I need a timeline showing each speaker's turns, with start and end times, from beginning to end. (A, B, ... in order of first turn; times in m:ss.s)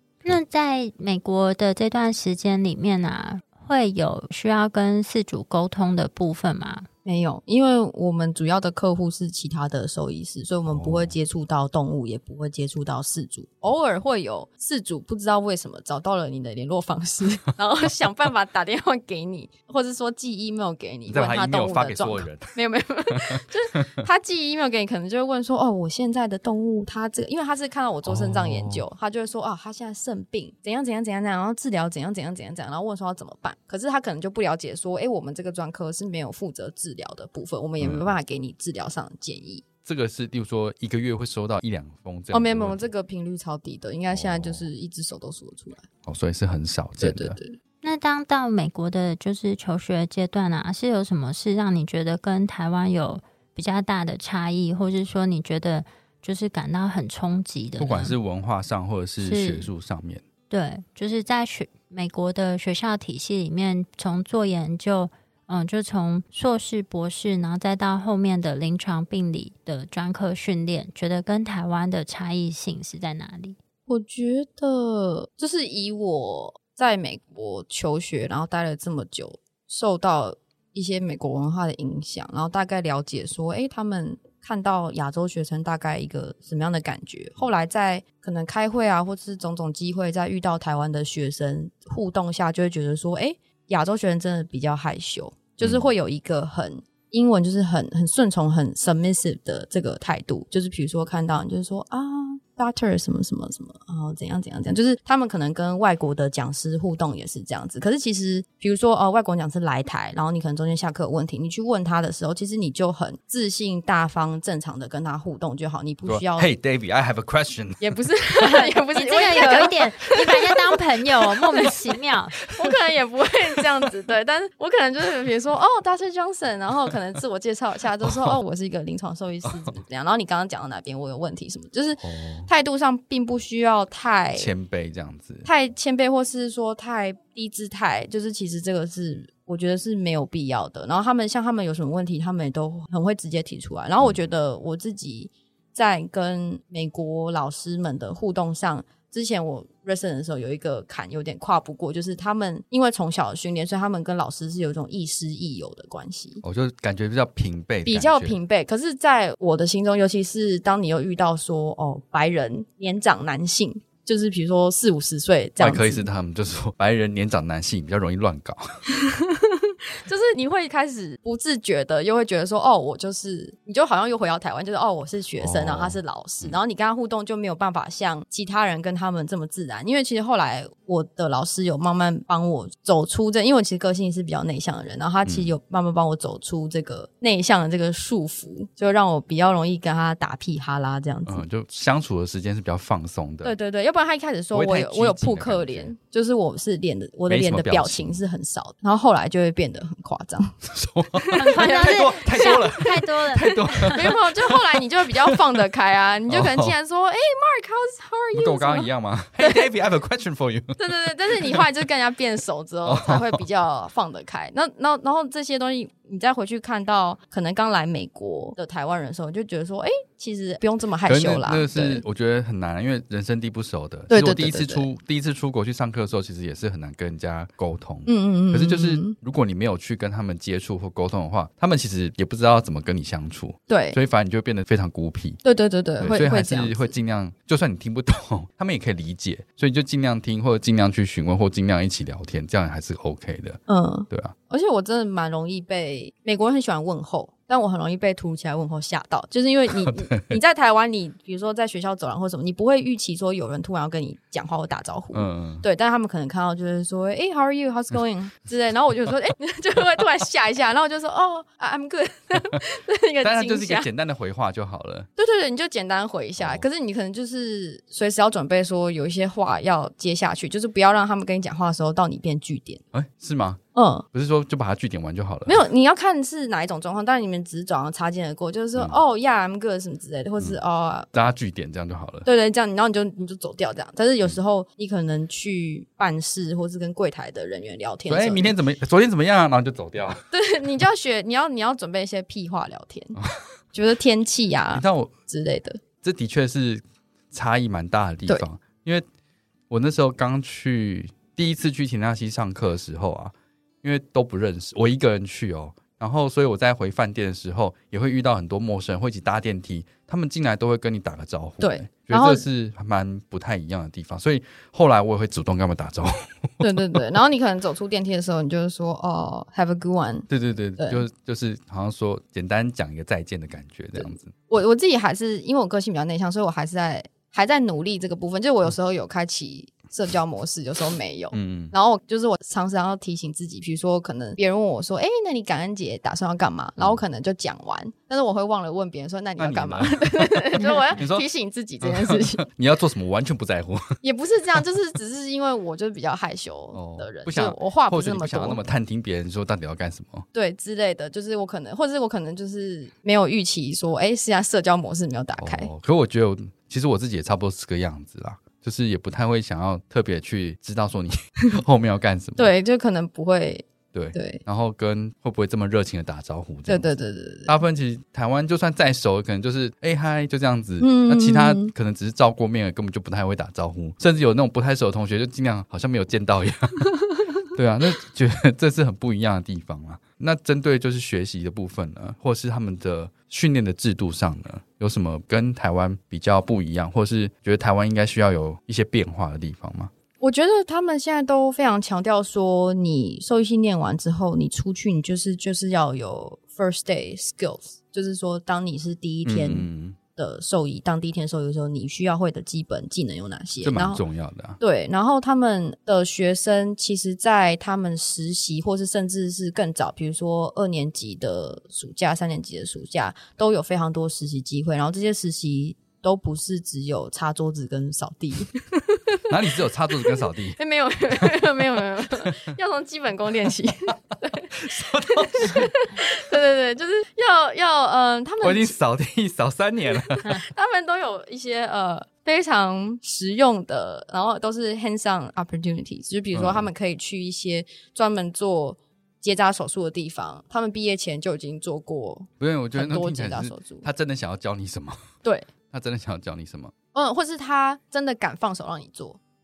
0:00.2-0:06.9 A
0:07.0-0:39.6 B
0:10.7-0:11.2 C
0:21.1-0:22.5 C
0:23.1-0:23.4 C
0:28.0-0:28.8 C
0:37.8-0:38.1 C
0:39.8-0:42.9 C
0:42.3-0:45.8 B
0:44.1-0:44.7 C
0:46.0-0:47.4 C
0:47.0-0:47.6 B
0:47.8-0:58.1 A
0:57.8-1:00.2 C
0:59.2-0:59.7 A
1:00.5-1:13.6 A
1:13.9-1:56.5 B
1:35.6-1:35.9 C
1:56.0-1:58.0 C
1:57.8-2:00.7 B
1:58.4-2:02.3 A
2:02.4-2:14.5 B
2:08.0-2:08.4 C
2:09.4-2:09.8 C
2:12.0-2:12.5 C
2:14.3-2:15.5 C
2:15.4-2:36.4 B
2:36.4-2:38.4 C
2:37.8-2:46.1 B
2:45.6-2:48.8 C
2:48.9-3:11.4 B
2:55.4-2:56.6 C
3:05.2-3:05.5 C
3:11.3-3:13.6 C
3:13.4-3:20.6 B
3:14.5-3:15.9 C
3:17.3-3:18.2 C
3:20.7-3:25.6 C
3:21.1-3:22.8 B
3:21.3-3:24.0 A
3:23.9-3:29.7 B
3:26.3-3:26.8 C
3:28.3-3:31.7 C
3:30.8-3:42.0 B
3:32.8-3:33.4 C
3:41.1-3:55.4 C
3:44.1-3:44.9 B
3:48.0-3:49.1 B
3:53.7-3:54.0 B
3:55.4-3:56.9 B
3:56.0-4:04.3 C
4:03.7-4:23.9 B
4:09.8-4:10.4 C
4:15.1-4:15.6 C
4:23.2-4:25.1 C
4:25.2-4:32.8 B
4:26.4-4:26.6 C
4:32.9-4:33.6 C
4:33.7-4:34.0 B
4:34.1-4:35.6 C
4:35.5-4:41.1 B
4:41.1-4:42.3 C
4:42.2-4:48.5 B
4:48.1-4:50.2 C
4:50.3-4:53.2 B
4:53.7-4:55.8 B
4:54.7-4:55.1 C
4:56.0-4:59.0 C
4:59.7-5:17.0 C
5:11.6-5:12.4 B
5:16.6-5:21.0 B
5:20.3-5:24.4 C
5:23.9-5:42.4 B
5:31.3-5:31.7 C
5:39.4-5:41.2 C
5:41.8-5:44.0 C
5:44.0-5:48.6 B
5:46.7-5:50.2 C
5:50.3-5:55.7 B
5:55.4-6:02.5 C
6:02.4-6:04.4 B
6:03.9-6:06.9 C
6:06.7-6:07.5 B
6:07.5-6:16.9 C
6:10.8-6:11.7 B
6:17.5-6:29.9 C
6:30.2-6:44.0 B
6:39.2-6:40.0 C
6:43.6-6:44.6 C
6:44.6-6:59.3 B
6:59.3-7:00.6 C
7:00.0-7:08.8 B
7:04.5-7:05.7 C
7:08.4-7:10.2 C
7:09.9-7:23.8 B
7:16.3-7:16.7 C
7:22.4-7:25.1 C
7:25.2-7:25.5 B
7:25.7-7:26.7 C
7:26.9-7:29.2 B